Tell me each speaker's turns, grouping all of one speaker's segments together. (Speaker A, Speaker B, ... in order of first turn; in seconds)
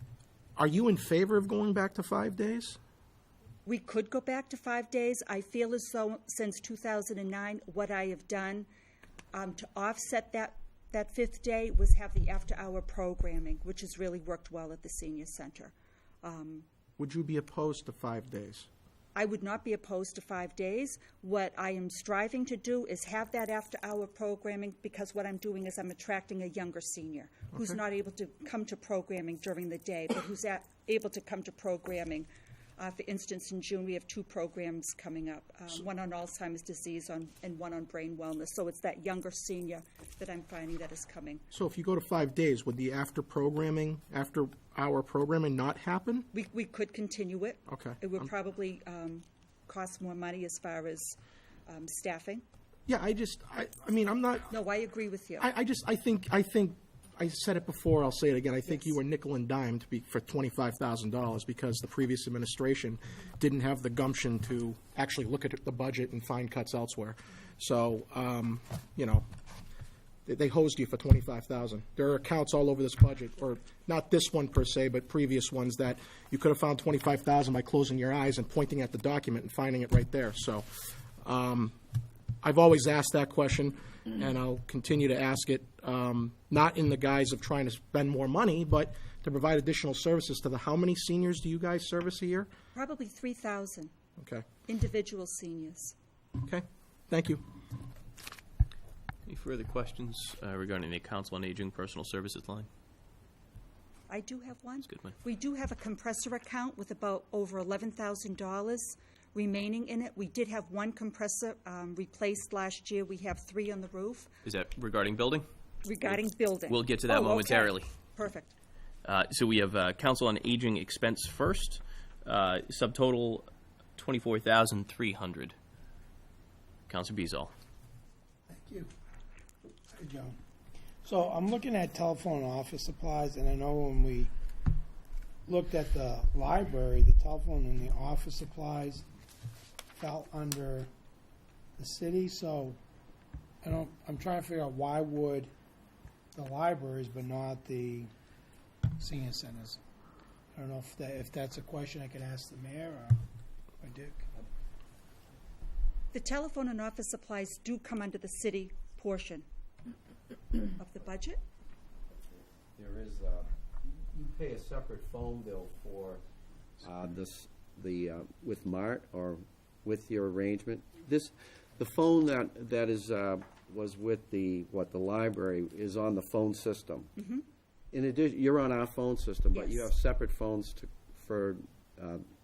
Speaker A: 0.6-2.8, 17.0-18.7, 41.5-46.3, 47.7-48.0, 52.9-54.6, 55.4-69.3, 70.3-80.7, 81.2-81.8, 82.4-92.5, 94.2-94.5, 96.5-97.4
Speaker B: 3.6-8.7, 9.3-16.7, 19.1-41.4, 46.3-52.4, 54.5-55.5, 58.7-59.0, 92.8-93.9, 94.7-96.0, 104.1-114.3, 115.8-118.5, 156.1-159.5, 160.7-161.4, 177.2-177.4, 179.5-179.9
Speaker C: 99.3-102.7, 104.9-105.1, 114.5-115.5, 116.7-117.9, 119.0-125.5, 126.9-127.5
Speaker D: 128.5-128.9, 129.9-130.4, 131.0-134.3, 135.5-139.1, 139.9-140.9, 141.8-142.8, 143.6-145.5, 146.3-148.1, 149.0-149.8, 150.6-153.2, 153.8-154.3
Speaker E: 162.3-166.2, 166.8-177.2, 177.9-182.3